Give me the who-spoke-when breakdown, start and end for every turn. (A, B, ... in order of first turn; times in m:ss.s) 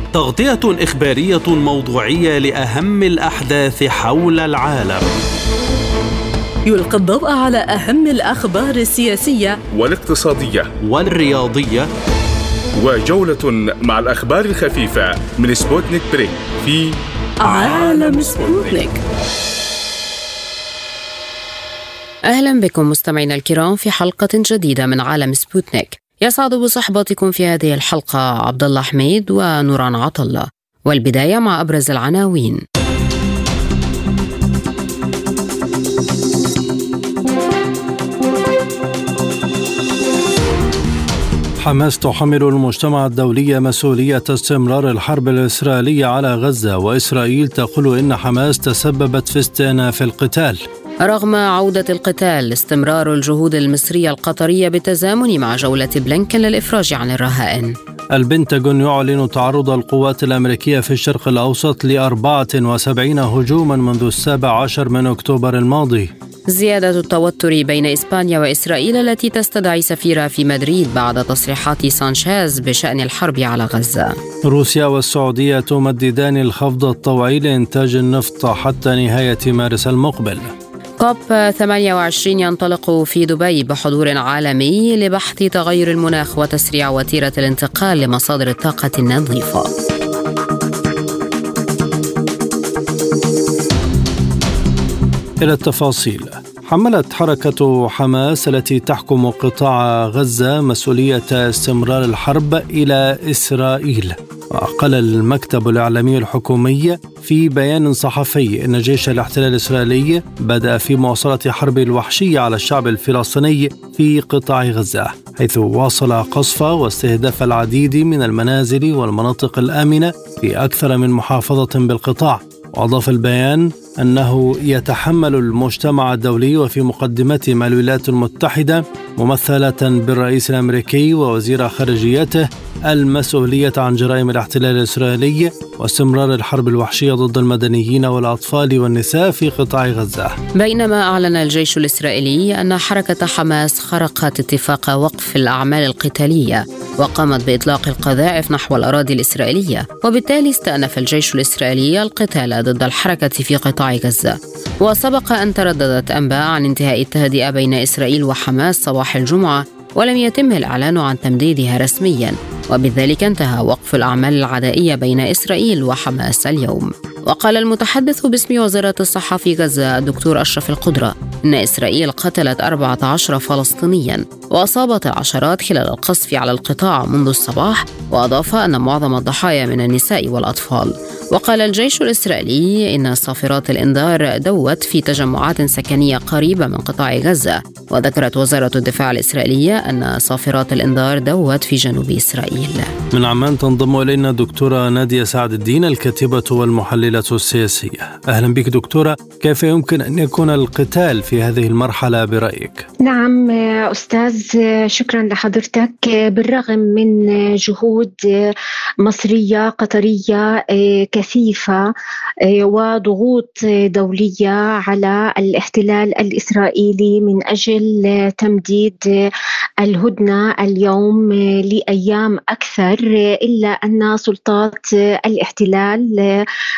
0:00.1-0:05.0 A
0:06.6-0:09.6 B
0:09.7-0:10.7 C
0:10.8-0:11.9 A
0:12.8-0:18.9 C
0:17.4-0:19.0 B
0:22.3-0:32.6 D
0:41.6-0:50.6 E
0:51.0-0:57.7 D
0:58.1-1:06.1 E
1:06.5-1:14.2 D
1:14.5-1:20.5 E
1:21.0-1:29.7 D
1:35.4-2:20.4 E
2:20.6-3:12.9 D
3:13.1-3:22.8 E
3:23.0-3:31.9 F
3:32.4-3:39.3 F
3:39.8-3:46.4 F